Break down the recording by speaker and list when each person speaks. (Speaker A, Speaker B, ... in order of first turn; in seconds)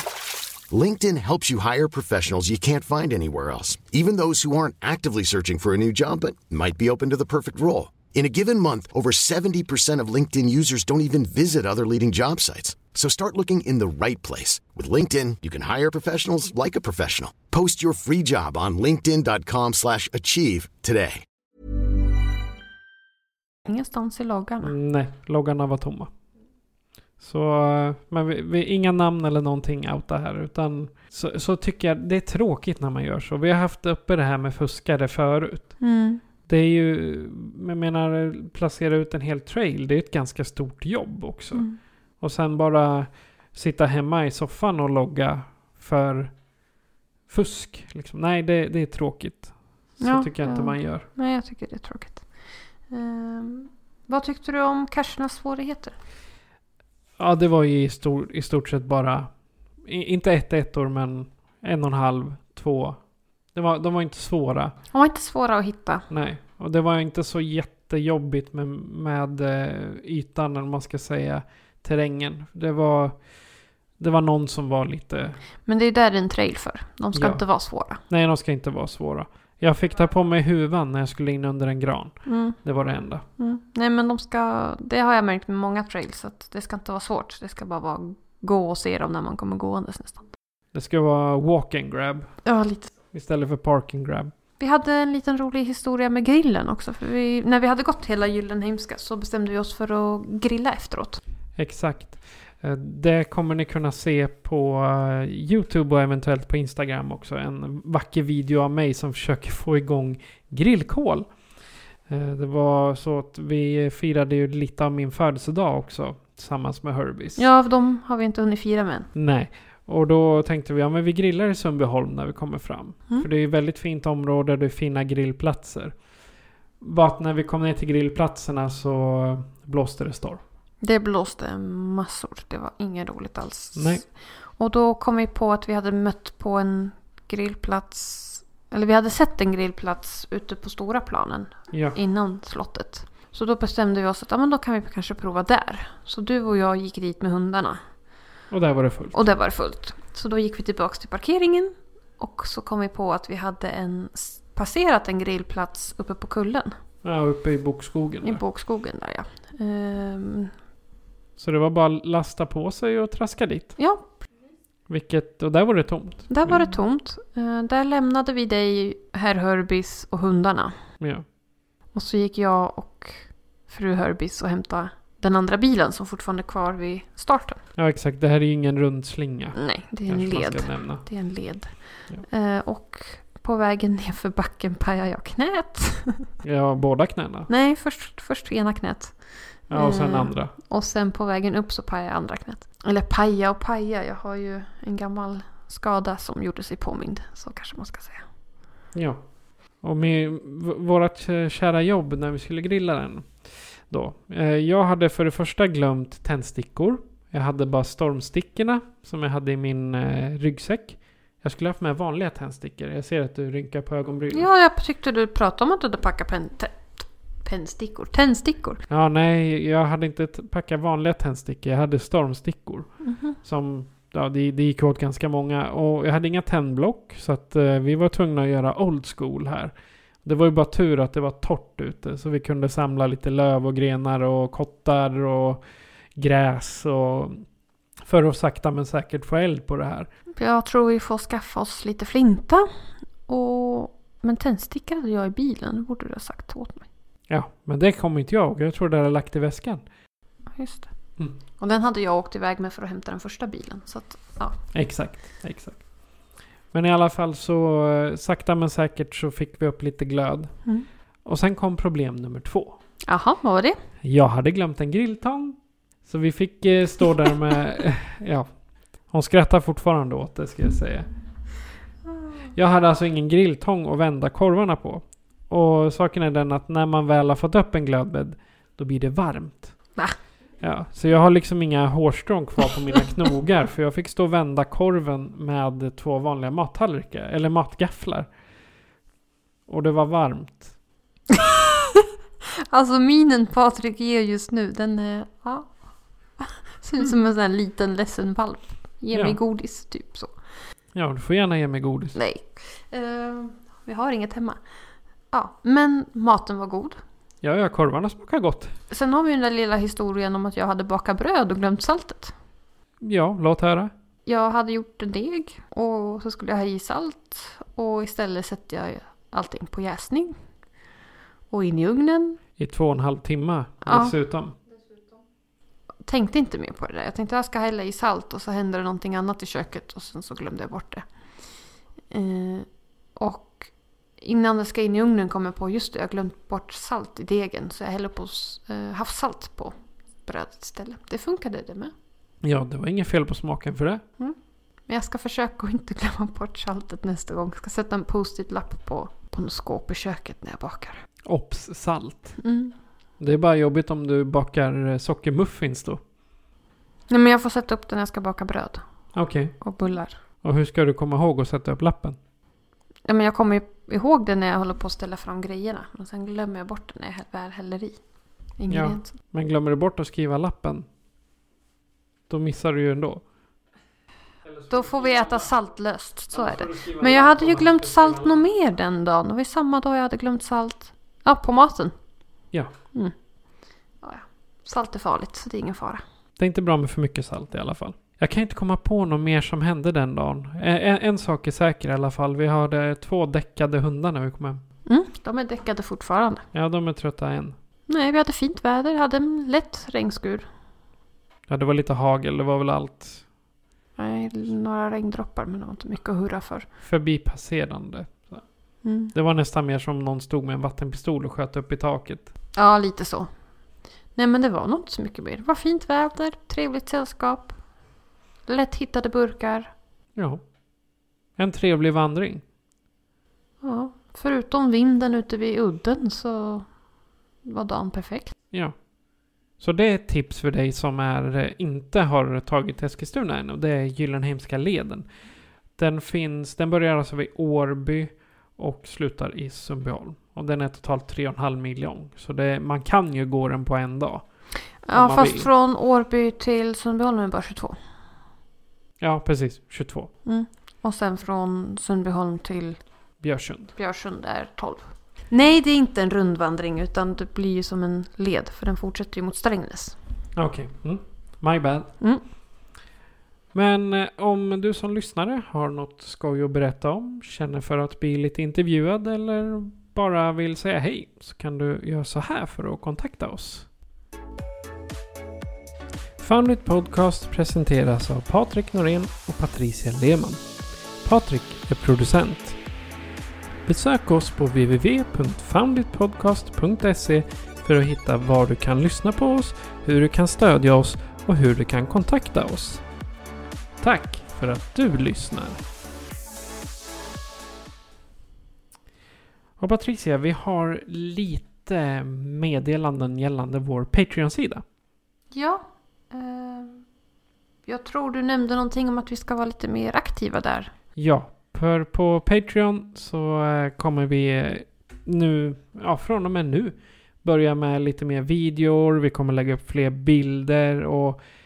Speaker A: 0.7-21.2
Speaker B: 23.7-24.7, 35.8-36.2, 50.0-52.2, 52.9-56.0, 64.9-66.1, 75.7-78.0, 82.3-82.6, 83.4-90.2, 92.5-92.9, 94.6-101.2, 117.4-119.1, 130.8-147.8, 149.1-156.8, 158.2-160.5, 163.8-164.0, 166.3-170.8, 171.9-177.6, 179.6-186.3, 187.5-189.2, 189.7-198.2, 214.3-218.8, 223.0-223.4, 240.4-242.7, 243.3-246.9, 250.6-250.9, 251.6-254.6, 263.0-263.8, 292.7-295.7, 296.4-300.3, 302.1-304.6, 305.3-307.0, 308.9-312.3, 314.3-320.4, 321.5-322.4, 323.9-324.1, 326.1-331.1, 332.1-341.9, 344.9-351.0, 352.4-352.8, 357.1-358.8, 359.6-360.2, 363.1-368.0, 368.6-369.1, 374.7-381.9, 384.0-386.0, 394.9-396.4, 397.9-400.5, 404.0-406.7, 408.8-409.1, 412.6-413.3, 414.2-417.6, 418.5-419.7, 423.6-426.7, 427.5-428.3, 444.8-447.8, 450.2-452.8, 453.8-460.0, 505.3-506.9, 507.7-510.7
Speaker C: 24.6-26.1, 27.2-35.8, 36.5-41.7, 42.2-46.3, 47.3-51.1, 57.2-59.3, 59.8-63.0, 63.5-64.8, 66.1-73.2, 74.0-75.4, 77.1-77.4, 78.1-83.2, 90.7-92.4, 93.1-94.3, 101.6-111.3, 112.1-117.4, 119.2-126.0, 126.8-130.4, 133.8-134.0, 141.7-142.0, 148.5-149.3, 157.0-158.4, 161.4-163.8, 164.9-166.7, 171.0-171.2, 177.8-181.1, 186.4-187.5, 189.7-190.5, 198.9-199.2, 199.8-214.5, 218.9-229.7, 230.2-235.6, 236.2-237.4, 238.1-240.1, 247.3-249.8, 254.7-255.8, 256.7-260.6, 261.2-262.8, 264.0-268.5, 269.1-271.1, 272.5-279.8, 280.6-288.3, 289.7-290.7, 299.1-299.4, 300.9-302.2, 307.4-308.8, 313.0-313.9, 322.6-324.6, 342.4-344.0, 351.3-352.4, 353.2-356.0, 359.1-359.6, 360.4-362.2, 368.7-370.9, 372.3-373.2, 374.5-375.5, 376.3-378.4, 386.4-394.6, 396.5-397.6, 401.5-403.2, 406.8-408.4, 409.1-412.3, 420.2-420.4, 421.4-422.4, 429.6-435.1, 435.8-444.3, 444.9-445.5, 449.0-450.1, 453.2-453.7, 460.4-461.9, 463.5-473.7, 476.2-480.4, 481.0-482.6, 483.7-492.8, 493.8-495.6, 499.6-504.6, 511.0-521.2